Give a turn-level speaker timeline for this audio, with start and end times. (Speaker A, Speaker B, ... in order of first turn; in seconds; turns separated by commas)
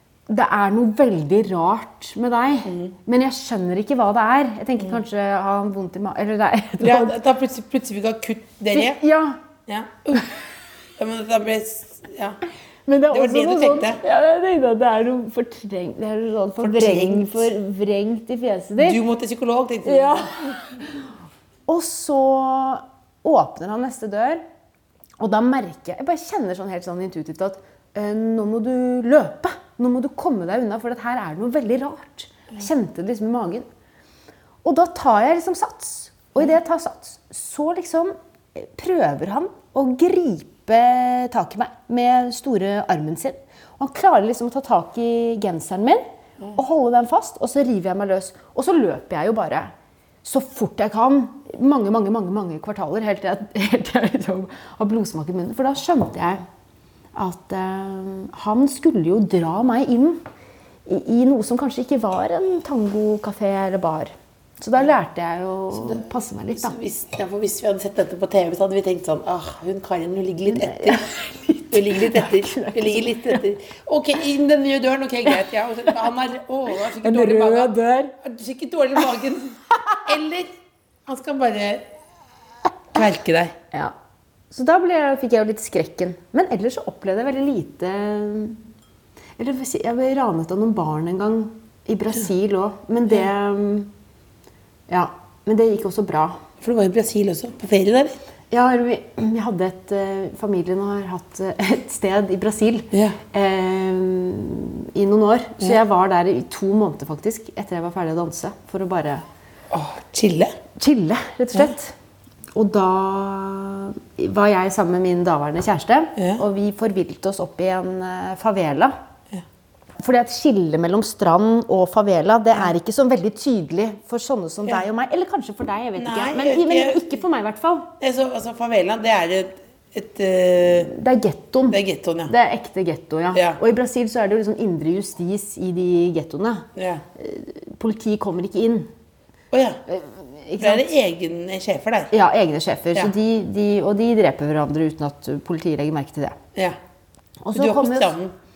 Speaker A: 0.3-7.2, Speaker B: 2.7-2.9, Speaker B: 6.8-9.0, Speaker A: 8.7-9.4, Speaker B: 9.7-10.3, Speaker B: 11.0-12.4, Speaker A: 12.9-19.0, Speaker B: 13.1-14.0, Speaker B: 16.6-17.5, Speaker B: 18.8-20.5, Speaker A: 19.9-20.8, Speaker A: 21.7-24.4, Speaker A: 25.2-33.7, Speaker A: 34.6-49.7, Speaker A: 50.2-56.4, Speaker A: 57.1-60.2, Speaker A: 60.9-66.8, Speaker B: 65.7-71.1, Speaker A: 70.5-73.4, Speaker B: 71.7-80.5, Speaker A: 77.0-78.1, Speaker B: 81.1-81.9, Speaker B: 82.9-83.5, Speaker A: 84.5-88.6, Speaker A: 89.4-93.9, Speaker A: 94.9-96.4, Speaker B: 96.6-98.2, Speaker A: 98.5-109.2, Speaker B: 102.9-103.2, Speaker B: 109.7-110.5, Speaker A: 110.8-112.0, Speaker A: 112.5-119.0, Speaker A: 120.0-127.9, Speaker B: 126.0-127.1, Speaker B: 128.0-130.9, Speaker A: 130.7-138.9, Speaker B: 131.7-132.3, Speaker B: 133.3-133.6, Speaker B: 136.8-137.0, Speaker B: 139.5-139.8, Speaker A: 139.9-140.9, Speaker B: 140.6-142.1, Speaker A: 142.1-146.4, Speaker A: 147.4-148.2, Speaker B: 147.5-148.3